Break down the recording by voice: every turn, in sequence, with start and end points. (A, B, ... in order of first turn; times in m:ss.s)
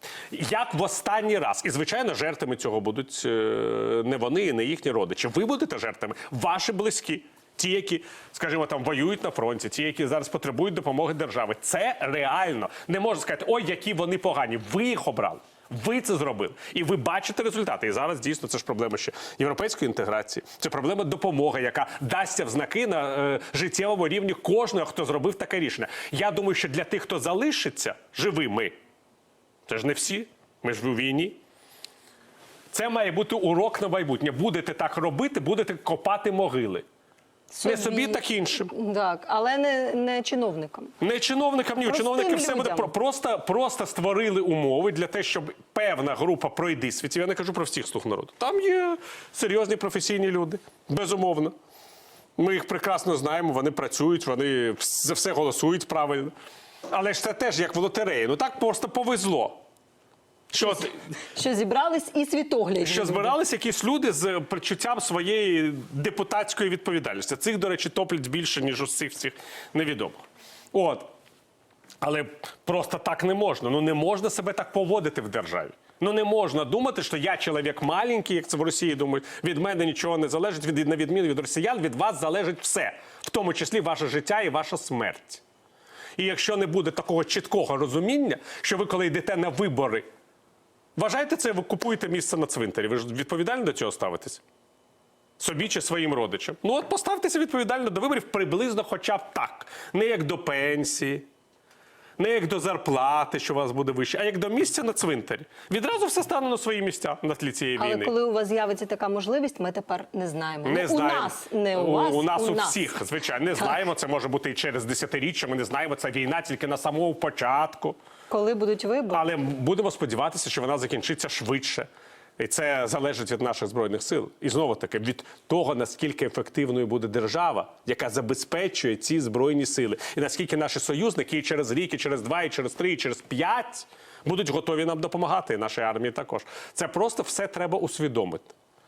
0:00.3-0:28.7 A
0:29.7-0:31.4 A
0:32.7-0:36.8 A
0:37.5-0:40.9 B
0:37.6-0:38.7 A
0:41.0-0:51.5 A
0:41.8-0:42.9 B
0:52.4-0:56.3 A
0:56.9-0:59.6 A
1:00.5-1:01.0 A
1:00.7-1:03.4 B
1:02.8-1:11.1 A
1:12.0-1:25.4 A
1:26.2-1:30.0 A
1:31.0-1:34.4 A
1:35.4-1:41.2 A
1:42.2-1:48.1 A
1:47.8-1:52.8 B
1:50.6-1:58.0 A
1:58.3-1:59.3 B
1:59.1-2:18.5 A